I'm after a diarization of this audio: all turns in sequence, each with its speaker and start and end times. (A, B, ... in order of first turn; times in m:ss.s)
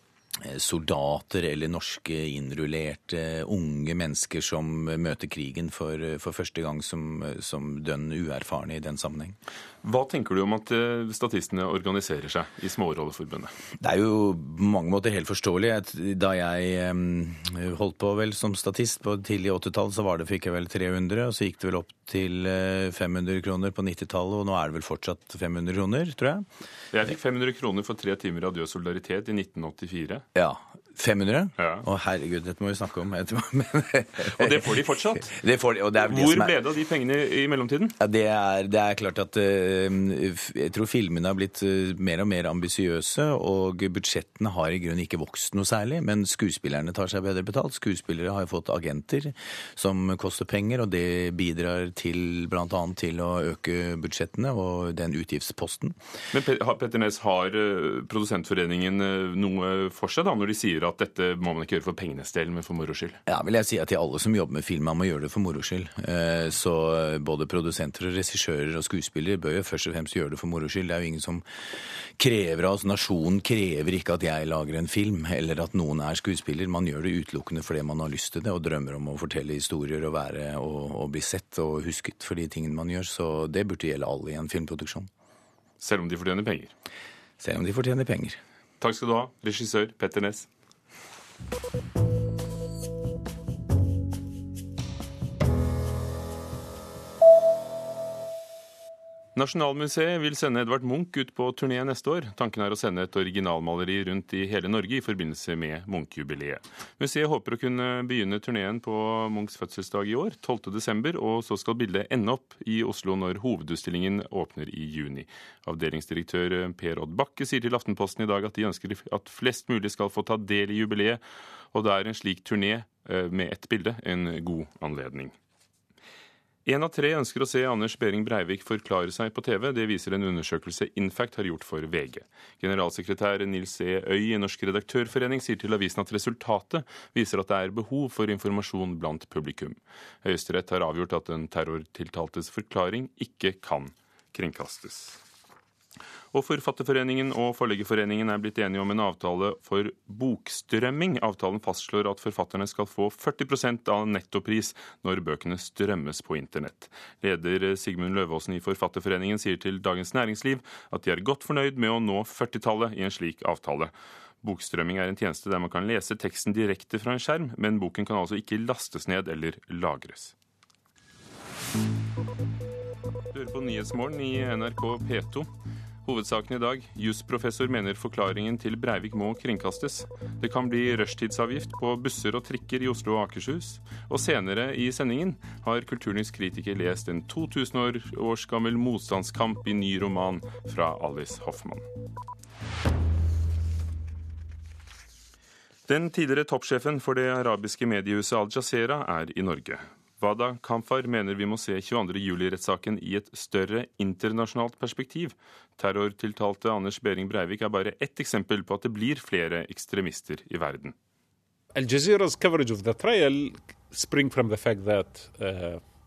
0:00.4-0:09.4 A
0:09.8-0:13.5 B
0:13.8-0:26.5 A
0:26.9-0:30.2 B
0:30.4-0:34.6 A
0:31.6-0:31.8 B
0:34.3-0:35.3 B
0:35.2-0:36.5 A
0:36.1-0:38.0 B
0:38.0-0:56.0 A
0:56.3-1:03.2 B
1:03.3-1:11.4 A
1:12.2-1:25.1 A
1:25.8-1:26.7 B
1:27.4-1:28.4 A
1:28.8-1:30.5 B
1:39.4-2:01.2 B
2:01.7-2:05.4 B
2:06.7-2:25.2 B
2:26.3-2:50.3 B
2:53.3-2:55.5 B
2:56.0-3:11.8 B
3:15.9-3:31.0 B
3:31.7-3:35.8 C